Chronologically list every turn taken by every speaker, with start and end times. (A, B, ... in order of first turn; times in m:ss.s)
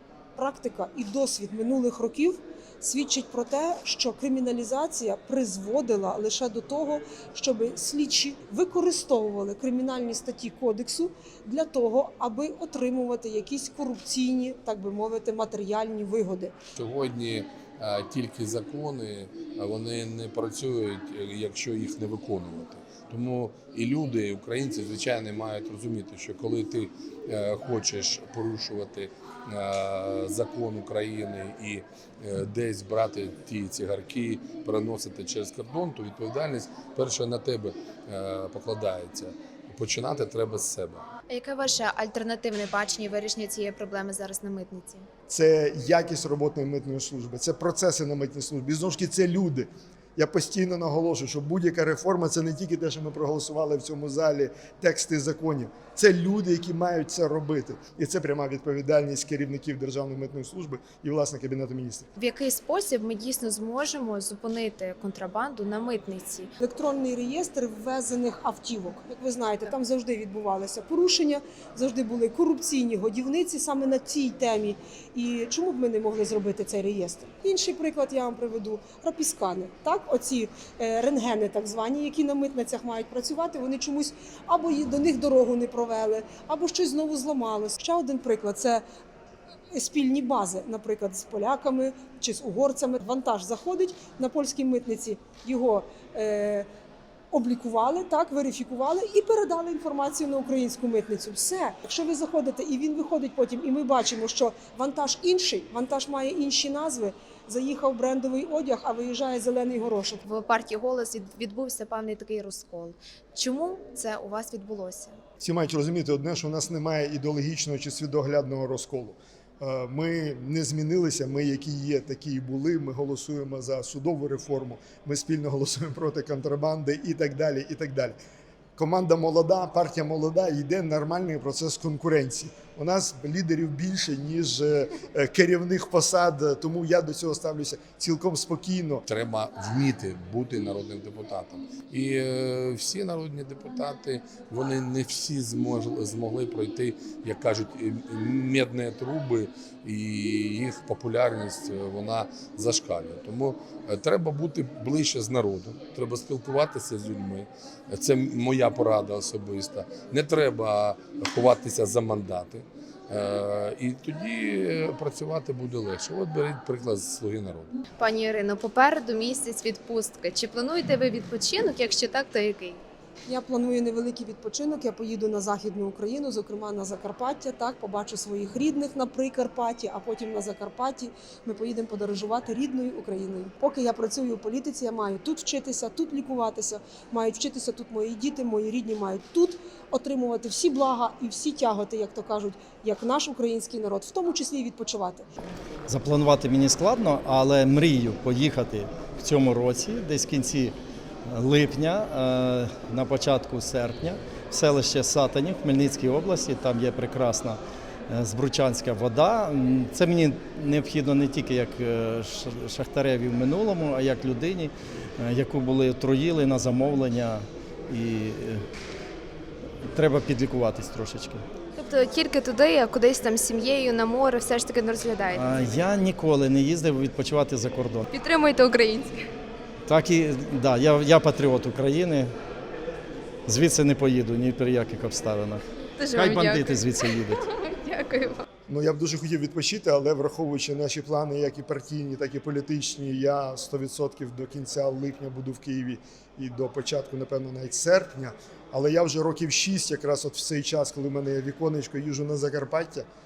0:00.4-0:16.5 A
0:16.7-0:41.0 B
0:41.3-0:45.0 C
0:45.3-1:02.1 D
1:02.2-1:06.5 C
1:06.6-1:28.8 A
1:29.7-1:36.7 A
1:37.3-1:50.2 A
1:50.2-1:55.2 C
1:55.4-2:08.2 D
2:08.8-2:19.0 D
2:19.0-2:47.8 B
2:48.0-2:52.8 C
2:53.2-3:15.2 A
3:15.9-3:20.7 E
3:21.2-3:38.6 E
3:39.8-3:41.4 E
3:41.8-3:45.9 C
3:45.3-3:48.1 E
3:48.1-3:49.3 C
3:49.8-3:52.3 E
3:53.5-3:57.4 E
3:56.0-3:56.9 C
3:57.5-3:58.4 C
3:58.7-4:13.0 D